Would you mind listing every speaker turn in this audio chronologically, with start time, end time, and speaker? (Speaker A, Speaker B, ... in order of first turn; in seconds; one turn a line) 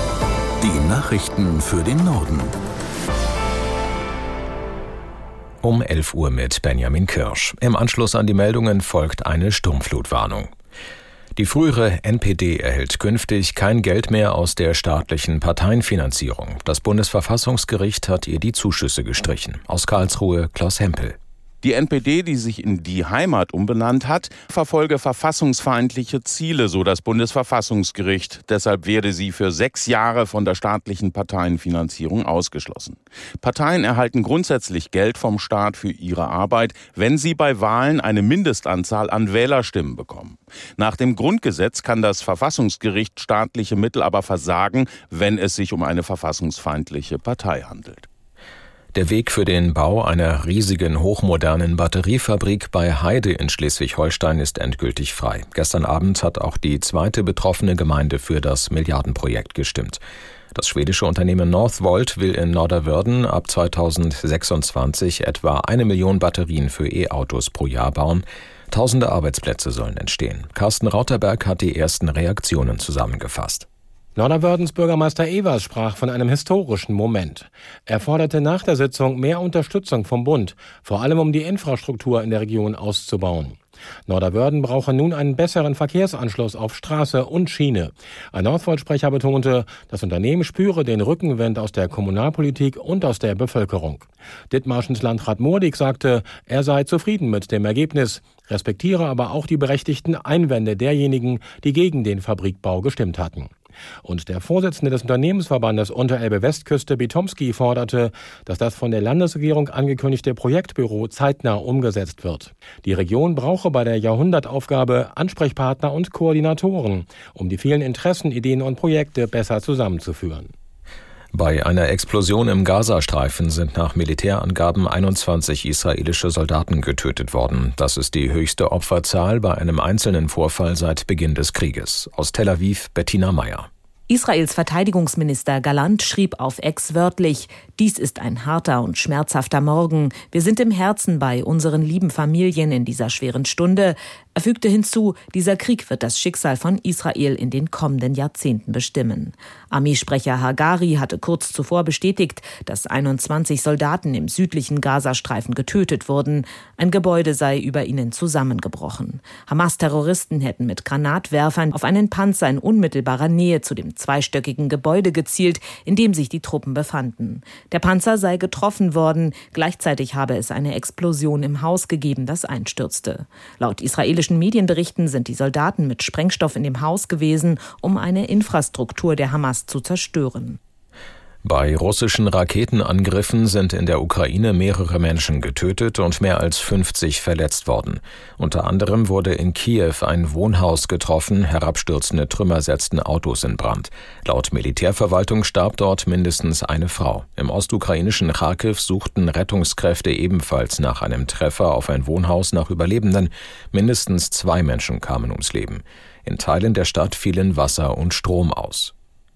Speaker A: 0.6-2.6
Speaker B: 5.6-10.5
Speaker B: 11.4-21.2
Speaker C: 21.6-48.1
Speaker B: 48.9-60.0
Speaker B: 60.5-73.7
Speaker D: 74.2-103.5
Speaker D: 104.0-120.5
Speaker B: 121.3-133.7
Speaker E: 134.1-180.6
Speaker B: 181.4-208.9